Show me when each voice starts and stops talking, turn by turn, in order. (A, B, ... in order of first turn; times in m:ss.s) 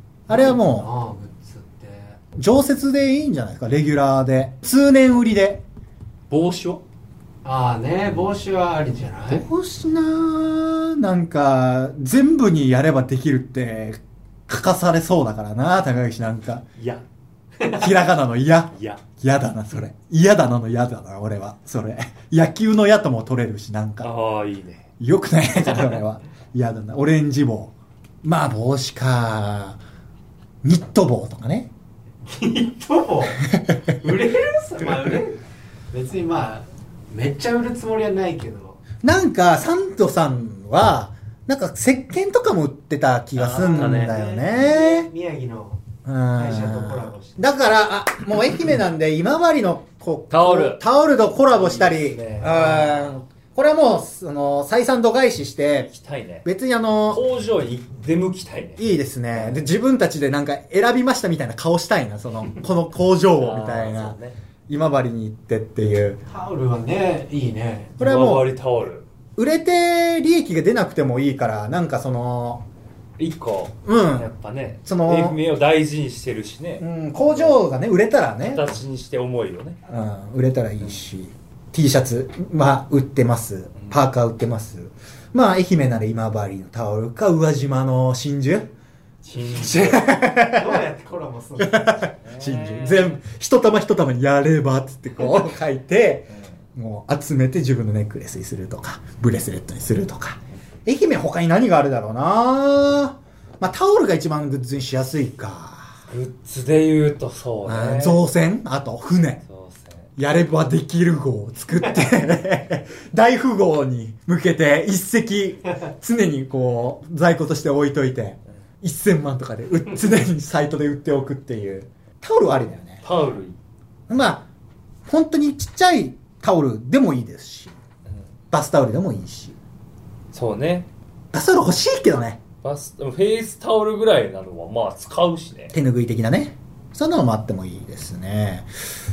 0:00.3-0:00.9 A
0:00.3-0:02.2 B
0:02.4-0:05.6 A
0:06.3-0:06.8 C
0:07.4-0:09.5 B
0:09.3-0:16.6 A
0:16.8-0:17.0 C
0:17.6-0:17.9 B
0:17.7-0:24.1 A
0:18.7-0:19.0 C
0:24.0-0:24.8 C
0:25.0-0:27.7 A
0:28.2-0:29.8 A
0:30.6-0:31.7 A
0:32.2-0:35.4 B
0:35.9-0:38.8 B
0:39.0-0:45.1 A
0:43.3-0:44.1 C
0:43.5-0:47.5 B
0:46.0-0:55.9 A
0:50.3-0:50.8 C
0:51.5-0:53.1 C
0:52.6-0:52.9 B
0:55.8-0:56.4 C
0:56.4-0:57.2 A
0:57.1-0:58.8 C
0:58.8-1:04.2 A
0:59.3-0:59.6 C
1:03.4-1:04.4 C
1:04.7-1:06.2 A
1:06.3-1:08.0 B
1:08.0-1:08.5 A
1:08.0-1:09.0 C
1:09.4-1:12.6 A
1:13.2-1:17.6 C
1:13.8-1:14.3 A
1:14.8-1:15.4 A
1:16.8-1:18.8 A
1:18.4-1:19.8 C
1:19.9-1:28.7 A
1:29.2-1:30.1 C
1:29.4-1:30.8 A
1:30.4-1:32.1 B
1:31.6-1:45.9 A
1:32.2-1:33.2 C
1:46.1-1:48.2 C
1:47.6-1:49.4 A
1:49.4-1:50.1 C
1:50.2-2:03.0 A
2:03.0-2:03.6 C
2:04.1-2:04.5 A
2:05.1-2:07.7 A
2:08.5-2:09.6 A
2:10.3-2:10.9 C
2:11.3-2:12.4 A
2:12.6-2:15.8 C
2:15.7-2:18.7 A